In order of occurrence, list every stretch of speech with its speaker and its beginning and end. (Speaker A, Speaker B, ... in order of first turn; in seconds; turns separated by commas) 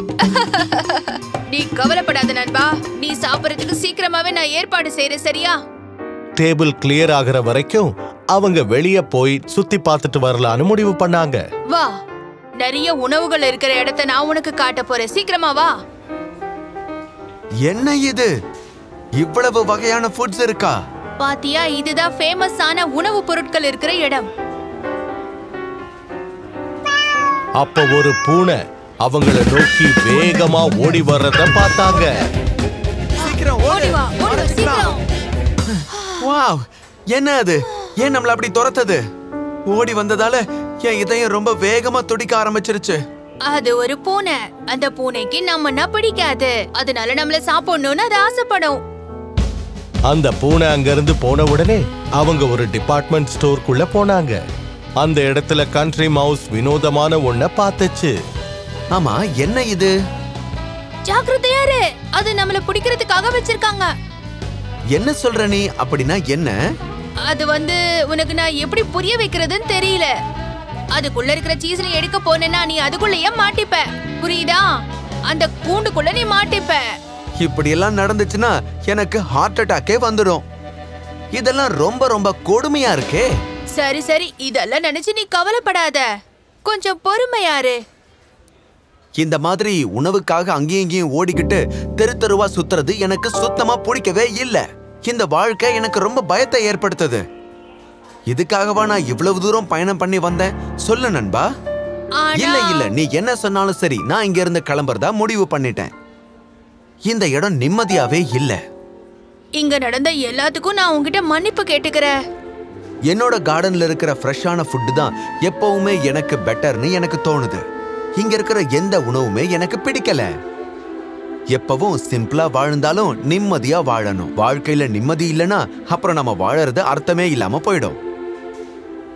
Speaker A: 0.2-5.6, Speaker B: 6.4-11.4, Speaker A: 11.7-11.9, Speaker A: 12.6-15.7, Speaker C: 17.6-18.3, Speaker C: 19.2-20.7, Speaker A: 21.2-24.3, Speaker B: 27.6-32.1, Speaker C: 33.2-34.9, Speaker A: 33.2-35.0, Speaker C: 35.7-39.0, Speaker A: 35.9-36.2, Speaker C: 39.7-43.0, Speaker A: 43.5-48.8, Speaker B: 50.1-54.4, Speaker B: 55.0-58.1, Speaker C: 58.9-59.9, Speaker A: 61.0-63.9, Speaker C: 64.9-66.5, Speaker A: 67.2-70.1, Speaker A: 70.9-74.7, Speaker A: 75.3-76.8, Speaker C: 77.4-80.4, Speaker C: 81.3-83.3, Speaker A: 83.7-86.0, Speaker A: 86.6-87.8, Speaker C: 89.2-97.2, Speaker C: 98.3-101.4, Speaker A: 102.2-102.9, Speaker C: 102.3-105.9, Speaker C: 107.1-108.6, Speaker A: 109.6-112.1, Speaker C: 113.1-117.6, Speaker C: 118.2-120.3, Speaker C: 121.5-128.0